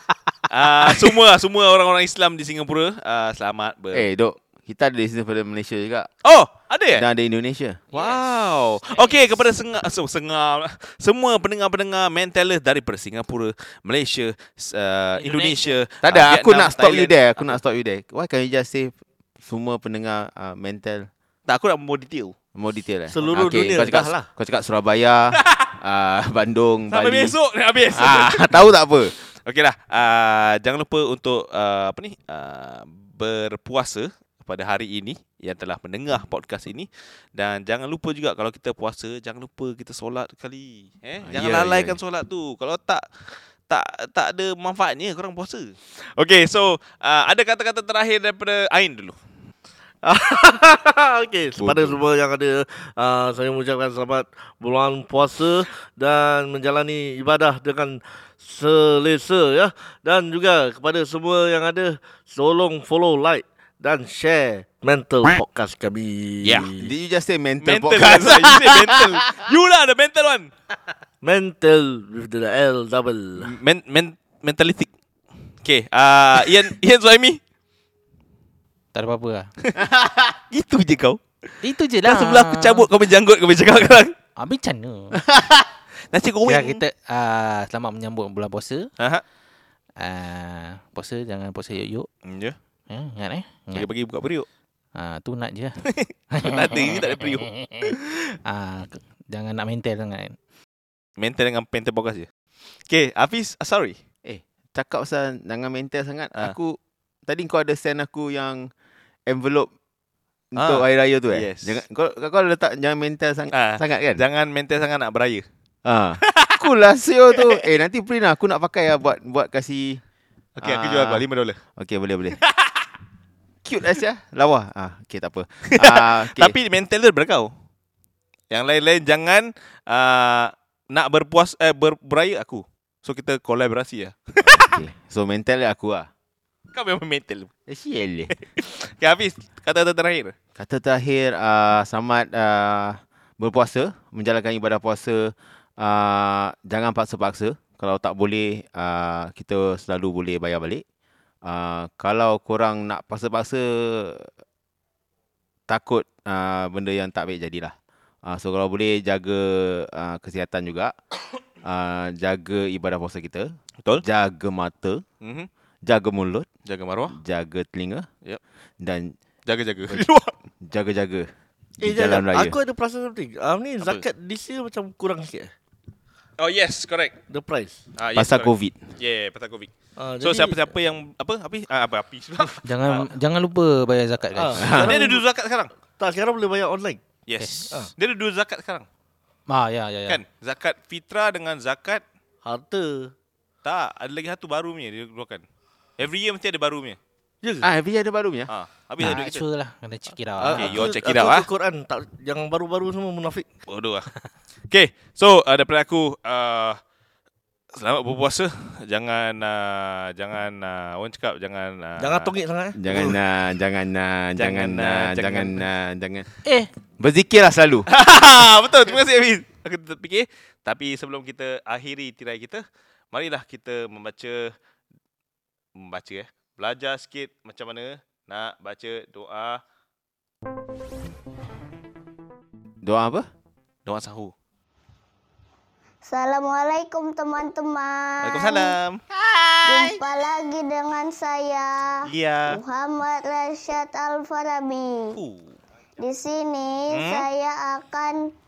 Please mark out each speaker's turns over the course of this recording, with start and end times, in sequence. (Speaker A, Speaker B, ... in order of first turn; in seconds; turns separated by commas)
Speaker A: 0.5-4.1, Speaker B: 3.9-6.1, Speaker A: 6.2-7.0, Speaker B: 6.9-7.8, Speaker C: 7.9-8.2, Speaker A: 7.9-17.6, Speaker C: 15.2-15.8, Speaker B: 16.0-21.1, Speaker A: 21.5-22.3, Speaker B: 22.5-27.3, Speaker D: 23.1-24.3, Speaker A: 25.3-25.7, Speaker A: 26.9-28.7, Speaker B: 27.9-29.1, Speaker A: 29.4-49.2, Speaker B: 41.2-42.0, Speaker D: 50.0-66.9, Speaker B: 51.6-52.0, Speaker A: 66.4-66.7, Speaker B: 66.8-69.2, Speaker A: 67.6-70.5, Speaker D: 71.2-73.5, Speaker A: 73.4-74.9, Speaker A: 75.6-77.4, Speaker C: 78.9-79.5, Speaker B: 79.8-80.3, Speaker A: 80.5-81.2, Speaker C: 81.6-82.9, Speaker A: 82.0-84.1, Speaker C: 84.4-85.2, Speaker B: 85.2-85.6, Speaker A: 86.1-86.8, Speaker C: 86.4-88.9, Speaker A: 89.0-89.2, Speaker C: 90.0-92.1, Speaker A: 92.2-92.6, Speaker C: 92.9-93.9, Speaker A: 93.7-94.5, Speaker C: 94.9-100.3, Speaker A: 95.8-98.0, Speaker A: 101.2-102.3, Speaker A: 102.9-104.0, Speaker B: 104.2-108.7, Speaker B: 109.3-109.7, Speaker B: 110.5-114.2, Speaker A: 110.5-111.8, Speaker A: 113.5-115.4, Speaker B: 115.8-120.0, Speaker A: 116.2-116.6, Speaker A: 117.3-117.6, Speaker A: 120.6-121.6, Speaker B: 120.6-121.2, Speaker B: 121.8-122.4, Speaker A: 122.4-122.8, Speaker B: 123.6-126.5, Speaker A: 125.7-127.5, Speaker A: 128.5-134.8, Speaker B: 134.4-136.1, Speaker A: 136.7-137.5, Speaker B: 137.7-138.3, Speaker A: 138.3-140.3, Speaker B: 140.6-150.8, Speaker B: 151.4-154.3, Speaker B: 155.7-157.7, Speaker B: 158.2-160.9, Speaker B: 161.6-165.0, Speaker A: 165.2-165.5, Speaker B: 165.8-166.5, Speaker A: 166.7-167.2, Speaker B: 167.1-168.1, Speaker B: 168.8-169.2, Speaker A: 169.4-170.3, Speaker B: 170.6-171.3, Speaker D: 171.8-175.5, Speaker B: 171.8-172.6, Speaker A: 176.4-177.2, Speaker D: 177.3-177.8, Speaker A: 178.0-183.1, Speaker B: 178.1-178.8, Speaker D: 180.0-180.7, Speaker C: 182.6-184.7, Speaker D: 184.3-185.2, Speaker B: 184.6-184.9, Speaker A: 184.6-185.7, Speaker D: 186.0-187.0, Speaker A: 187.3-188.8, Speaker C: 187.4-187.7, Speaker C: 189.5-190.2, Speaker A: 190.1-192.0, Speaker D: 192.4-193.1, Speaker A: 193.6-195.4, Speaker A: 196.0-197.0, Speaker D: 197.4-197.7, Speaker B: 197.6-198.5, Speaker A: 198.5-199.4, Speaker C: 199.0-200.8, Speaker D: 200.4-203.5, Speaker A: 200.4-201.5, Speaker A: 203.7-204.1, Speaker A: 204.7-206.8, Speaker A: 207.7-212.3, Speaker D: 212.0-212.8, Speaker B: 212.8-216.3, Speaker A: 212.9-213.2, Speaker A: 214.4-215.6, Speaker C: 216.4-216.7, Speaker B: 217.0-217.9, Speaker A: 217.9-224.5, Speaker A: 225.7-229.6, Speaker B: 232.8-233.3, Speaker A: 233.8-234.3, Speaker E: 236.0-238.8, Speaker A: 238.2-240.0, Speaker E: 239.6-245.2, Speaker A: 242.1-242.6, Speaker A: 245.1-245.6, Speaker E: 246.0-248.3, Speaker A: 246.9-247.3